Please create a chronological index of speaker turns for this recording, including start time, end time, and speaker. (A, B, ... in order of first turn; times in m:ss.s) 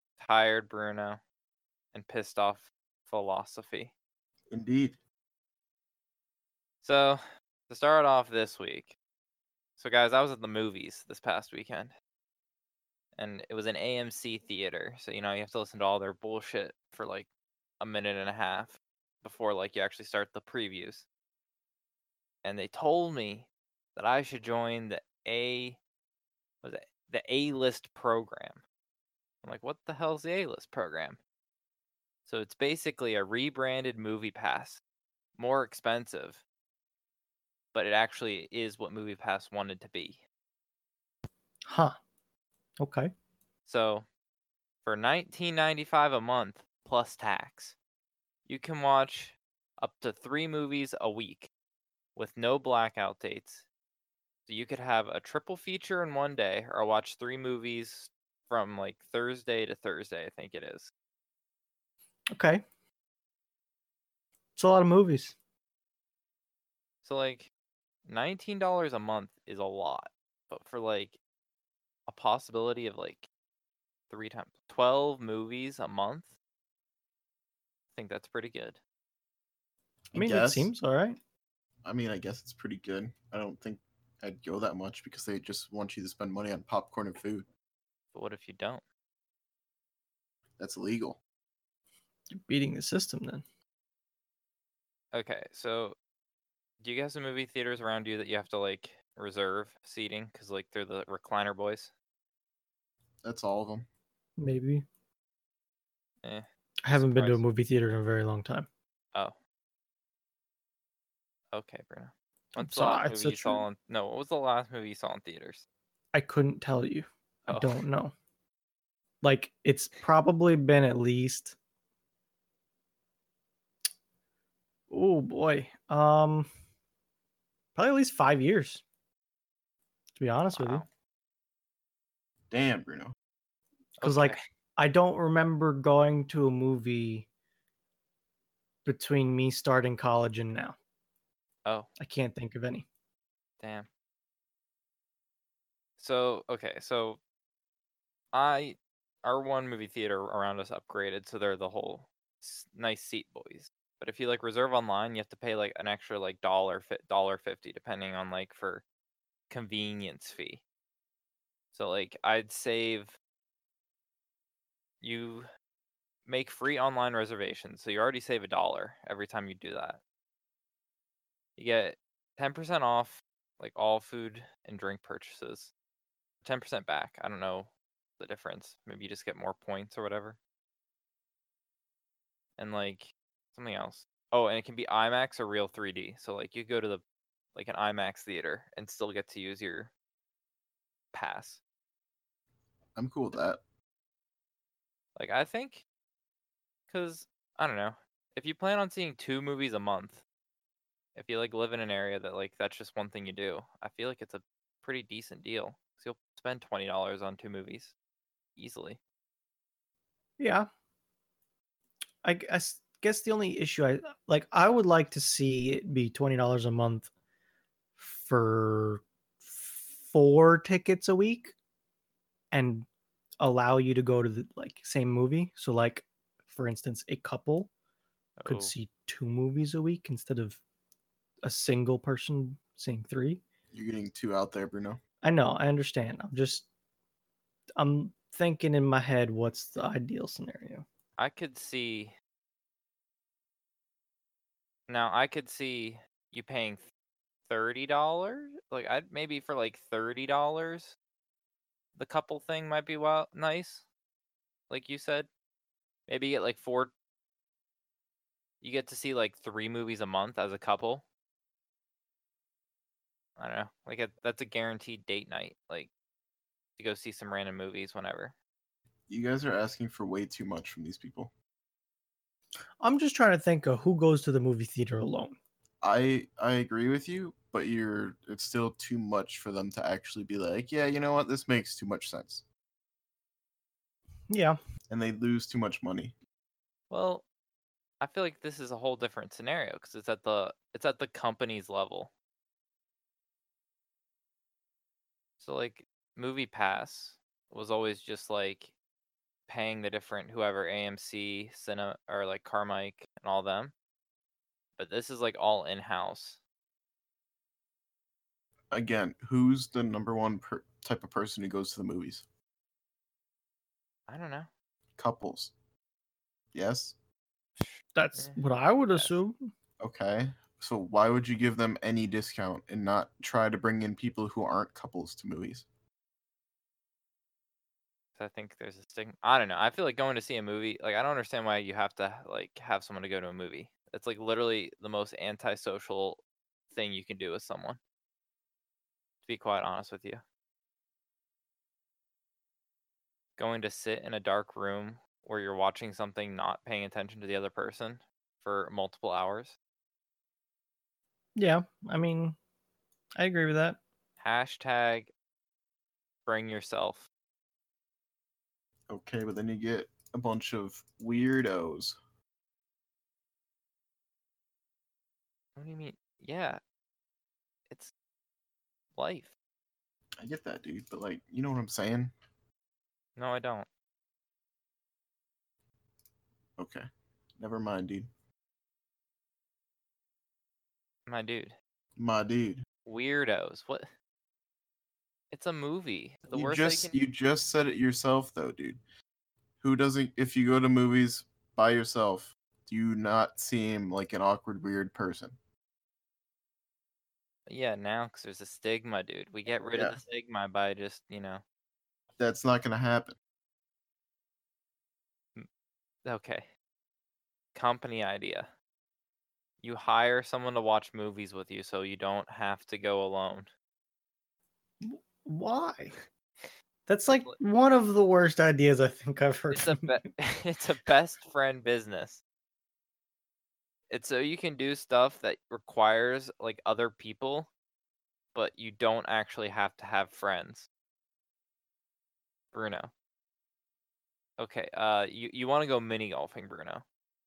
0:00.2-0:01.2 A
0:01.9-0:03.9 A
0:04.5-0:05.0 B
0:06.8-0:08.9 A
0:09.8-0:11.9 A
0:13.2-0:17.3 A
0:17.8-0:21.0 A
0:22.4-0:25.8 A
0:26.6-0:28.6 A
0:29.4-0:31.2 A
0:32.3-0:34.8 A
0:35.4-0:36.4 A
0:37.7-0:40.2 A
0:41.7-0:42.0 C
0:42.8-0:43.1 C
0:43.6-0:44.0 A
0:44.8-0:47.8 A
0:48.4-0:51.5 A
0:52.2-0:53.6 A
0:54.5-1:00.9 A
1:02.3-1:02.6 C
1:04.6-1:05.3 C
1:07.0-1:07.5 A
1:08.0-1:11.2 A
1:12.1-1:13.3 A
1:14.1-1:16.3 A
1:17.9-1:18.8 A
1:20.1-1:20.7 B
1:20.1-1:21.2 C
1:21.8-1:27.5 B
1:28.1-1:28.8 A
1:30.6-1:31.2 B
1:32.3-1:33.4 C
1:35.1-1:36.0 A
1:36.8-1:41.9 A
1:43.2-1:43.9 B
1:44.4-1:44.8 C
1:46.2-1:47.4 A
1:46.8-1:48.7 C
1:51.5-1:55.6 A
1:52.6-1:53.6 C
1:56.1-1:58.1 C
1:57.5-1:57.8 A
1:59.2-2:01.6 C
2:04.9-2:06.5 C
2:07.7-2:08.8 C
2:10.2-2:10.8 C
2:10.5-2:10.8 A
2:12.5-2:13.1 B
2:14.0-2:14.4 A
2:14.0-2:17.3 C
2:18.8-2:20.8 C
2:22.0-2:22.8 C
2:23.6-2:23.9 A
2:26.0-2:27.2 A
2:28.3-2:38.8 A
2:39.5-2:40.6 A
2:41.7-2:43.1 A
2:45.0-2:45.5 A
2:46.3-2:50.0 A
2:51.6-2:55.7 A
2:56.4-3:00.4 A
3:02.6-3:07.0 A
3:07.5-3:09.9 A
3:11.1-3:11.6 A
3:13.0-3:13.6 B
3:15.2-3:15.8 A
3:16.9-3:20.2 A
3:21.2-3:27.9 A
3:28.6-3:29.0 A
3:30.4-3:30.7 C
3:32.2-3:37.1 C
3:38.0-3:41.5 C
3:42.5-3:42.8 C
3:43.4-3:47.7 C
3:48.4-3:48.7 A
3:48.4-3:50.6 C
3:51.4-3:53.4 C
3:53.7-3:55.0 B
3:55.2-3:56.7 C
3:57.8-4:00.8 C
4:01.2-4:02.1 A
4:04.9-4:06.8 A
4:07.5-4:11.0 A
4:12.0-4:13.8 A
4:14.7-4:15.3 A
4:16.1-4:16.9 A
4:18.6-4:21.0 A
4:23.4-4:25.9 A
4:26.8-4:28.3 A
4:29.1-4:31.3 B
4:32.8-4:35.4 C
4:35.8-4:42.4 B
4:44.3-4:44.6 C
4:44.9-4:46.1 B
4:46.9-4:47.2 A
4:48.0-4:52.1 A
4:55.4-4:58.7 A
4:59.5-5:03.7 A
5:04.8-5:06.4 A
5:08.7-5:12.2 B
5:14.1-5:14.5 A
5:15.0-5:15.5 B
5:16.5-5:16.9 B
5:17.6-5:19.2 A
5:18.0-5:19.4 C
5:19.8-5:25.6 B
5:28.2-5:37.8 A
5:39.2-5:40.2 A
5:43.4-5:49.6 A
5:51.4-5:52.4 C
5:53.2-5:53.8 C
5:54.2-5:55.1 A
5:56.2-5:57.1 A
5:58.9-6:02.0 B
6:05.6-6:06.6 A
6:09.0-6:09.3 A
6:10.2-6:12.1 B
6:13.2-6:13.7 A
6:16.6-6:16.8 B
6:17.4-6:18.1 B
6:21.0-6:21.6 A
6:22.0-6:22.6 B
6:22.8-6:23.9 A
6:25.3-6:27.0 A
6:26.3-6:28.8 B
6:29.6-6:35.4 B
6:37.5-6:41.4 A
6:42.2-6:43.2 B
6:46.0-6:46.5 A
6:47.5-6:48.5 A
6:49.6-6:53.5 A
6:54.8-6:56.0 C
6:56.9-7:00.0 C
6:57.1-6:57.4 A
6:59.5-7:02.2 A
7:03.9-7:07.5 A
7:08.3-7:10.7 A
7:12.5-7:12.9 A
7:14.4-7:16.8 A